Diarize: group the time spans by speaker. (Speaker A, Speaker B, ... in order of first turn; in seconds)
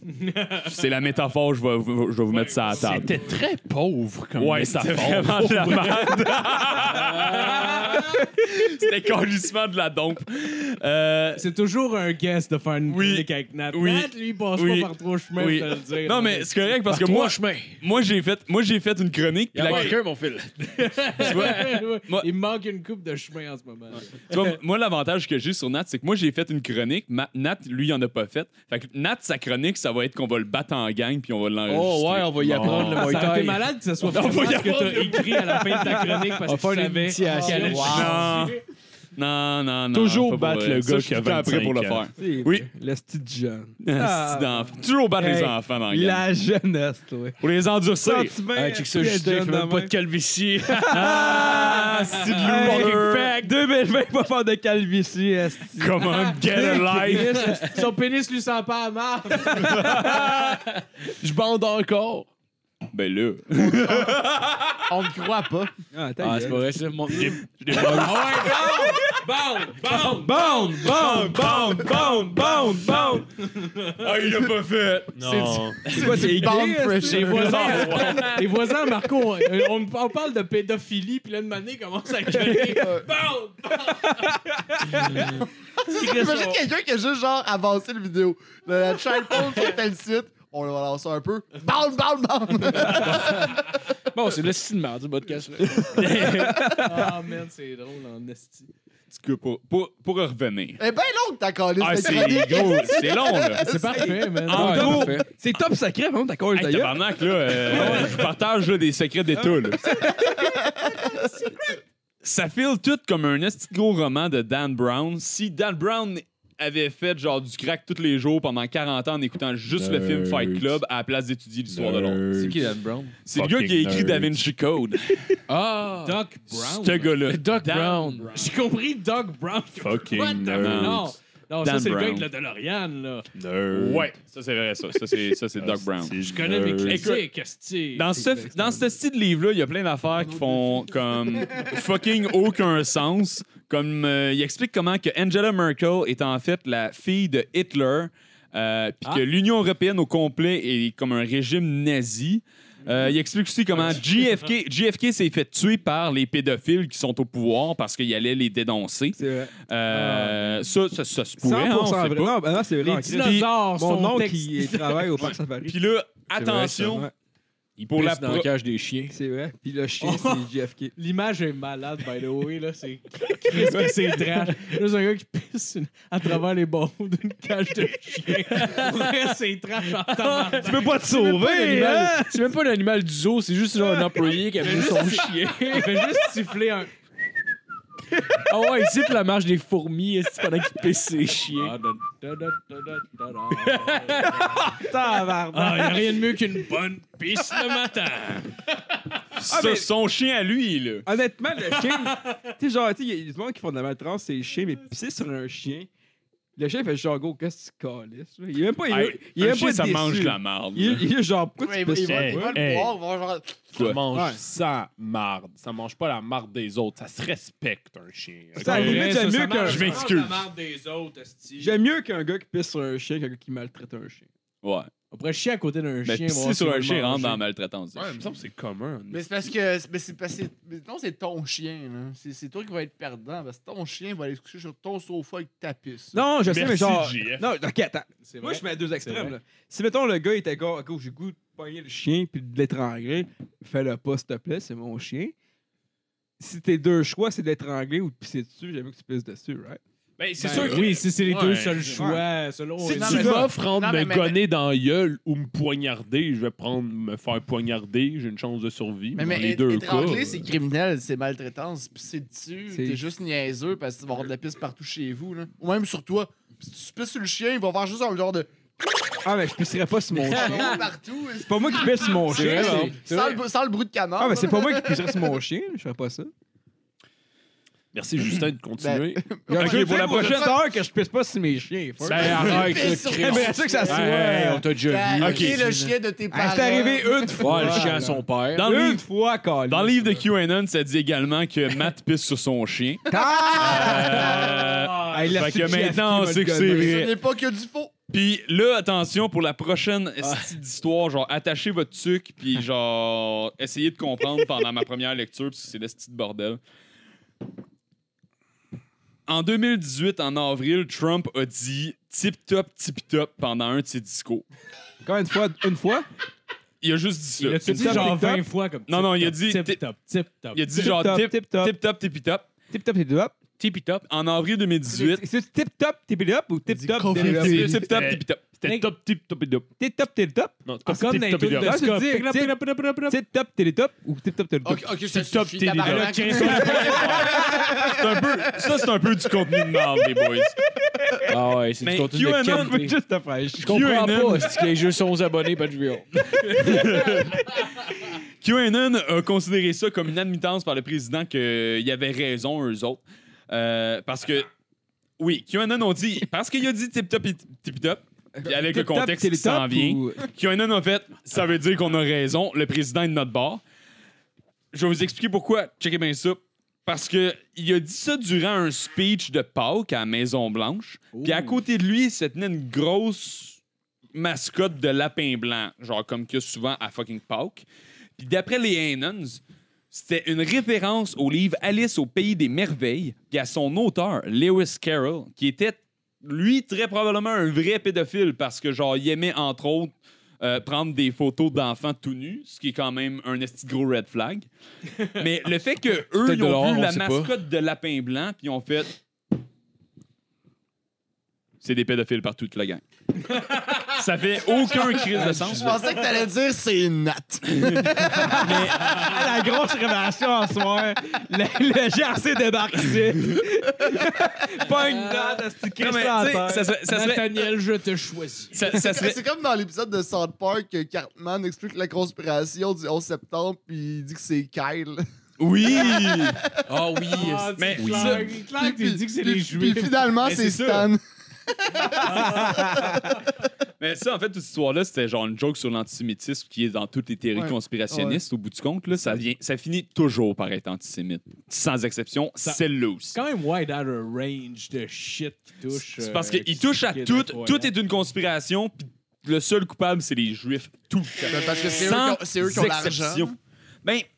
Speaker A: 0.1-0.6, 2.3-3.4, 6.9-8.2, 11.4-16.8, 19.7-20.0, 20.7-24.4, 32.9-38.6, 56.7-59.9, 67.7-69.3, 73.6-74.0, 77.0-84.4, 85.0-85.3, 86.0-86.6, 92.8-93.6, 95.9-98.7, 103.6-105.1, 107.7-108.2, 126.0-127.0, 128.2-133.3, 136.2-138.1, 159.9-160.5, 162.8-165.3, 170.0-182.2, 184.0-186.9, 191.5-194.9, 195.5-198.6, 201.7-202.4, 218.6-220.0, 225.1-227.4, 238.2-239.4, 250.4-253.5, 317.4-320.7, 328.6-328.9, 330.9-333.2, 335.8-337.4, 371.1-371.6, 403.3-403.9, 404.5-406.2, 408.8-409.2, 414.8-415.5, 416.8-418.6, 427.1-430.9, 432.0-432.7, 443.1-447.7
Speaker B: 0.6-3.2, 4.4-11.5, 12.9-20.0, 21.2-22.3, 24.2-33.1, 37.7-38.6, 39.2-42.7, 43.8-46.2, 47.4-48.4, 50.9-53.4, 55.8-57.6, 59.6-60.2, 62.9-64.9, 68.8-69.0, 70.4-73.2, 73.9-75.5, 77.1-78.5, 99.1-100.8, 101.8-103.7, 104.5-105.2, 106.5-110.0, 112.2-122.5, 123.2-125.4, 126.5-128.5, 130.5-132.3, 133.7-136.2, 136.8-137.3, 137.9-162.3, 163.2-163.5, 165.3-167.1, 167.8-168.5, 199.4-201.1, 208.9-211.1, 219.6-220.5, 224.6-224.9, 226.1-228.2, 279.5-280.6, 285.2-285.6, 288.5-289.1, 289.7-297.1, 298.1-306.6, 309.3-314.4, 316.8-318.2, 318.9-319.8, 320.5-322.5, 324.1-325.2, 327.3-328.4, 337.2-340.6, 341.8-342.9, 343.6-344.6, 346.2-347.9, 348.4-354.5, 355.2-363.6, 364.7-373.6, 374.1-377.6, 378.2-379.4, 379.9-394.5, 395.1-399.0, 401.6-402.8, 403.9-405.8, 407.5-409.0, 415.8-417.5, 418.5-419.2, 425.4-426.4, 427.6-428.4, 430.3-430.9, 432.3-432.6, 433.8-443.2, 446.0-454.1
Speaker C: 2.7-6.3, 32.4-33.0, 34.1-35.4, 39.9-42.1, 61.2-62.3, 67.1-68.6, 69.6-70.3, 75.2-76.0, 119.7-120.8, 121.7-122.7, 123.3-124.4, 129.8-131.1, 133.3-134.1, 135.6-137.1, 212.1-213.0, 213.8-219.2, 227.9-229.5, 236.4-237.5, 250.2-252.1, 252.9-260.5, 277.9-279.2, 282.1-282.6, 327.1-329.7, 330.6-331.8, 335.1-336.9, 427.8-428.2
Speaker D: 16.9-17.8, 19.5-21.7, 31.7-33.6, 36.4-38.3, 48.5-51.5, 66.2-67.4, 94.1-96.5, 104.5-105.3, 122.3-123.2, 125.5-128.3, 167.8-169.2, 181.5-186.1, 188.3-191.8, 218.8-221.8, 272.3-273.4, 282.0-285.9, 287.4-288.7, 323.6-324.1, 341.3-343.0, 343.6-346.1, 396.1-397.3, 426.7-427.7
Speaker E: 35.4-36.4, 42.2-47.4, 48.0-50.0, 50.6-57.4, 65.9-66.7, 70.1-73.3, 75.9-77.5, 82.3-83.0, 83.9-85.3, 95.9-97.2, 104.0-108.3, 109.4-110.9, 138.1-138.9, 159.2-159.5, 161.4-165.8, 166.3-167.1, 169.1-170.9, 173.4-174.6, 180.5-182.3, 194.4-196.3, 199.5-199.9, 201.1-205.9, 206.6-212.6, 214.1-214.4, 218.6-219.9, 221.6-224.3, 236.1-245.3, 246.4-249.8, 250.4-250.8, 251.9-252.2, 253.1-253.4, 262.7-263.0, 269.2-270.9, 271.4-273.0, 274.2-276.3, 279.5-284.7, 286.3-290.3, 293.1-297.0, 315.0-316.1, 317.7-318.5, 320.7-321.8, 322.7-323.4, 324.9-327.8, 329.8-330.9, 331.5-334.9, 337.5-337.8, 342.5-343.9, 358.4-360.3, 408.1-416.8
Speaker F: 37.4-38.3, 63.7-64.1, 64.9-65.7, 75.2-78.3, 82.8-83.1, 85.8-93.6, 100.8-104.2, 110.3-111.3, 140.2-141.8, 211.6-214.0, 229.1-236.2, 252.8-254.4, 259.1-268.5, 270.1-275.3, 278.8-280.5, 282.4-284.2, 284.8-288.1, 293.1-294.6, 296.7-297.9, 326.7-327.9, 334.6-338.7, 405.4-409.1, 418.7-425.0, 425.6-426.6, 428.4-433.2, 437.4-438.2, 451.3-453.3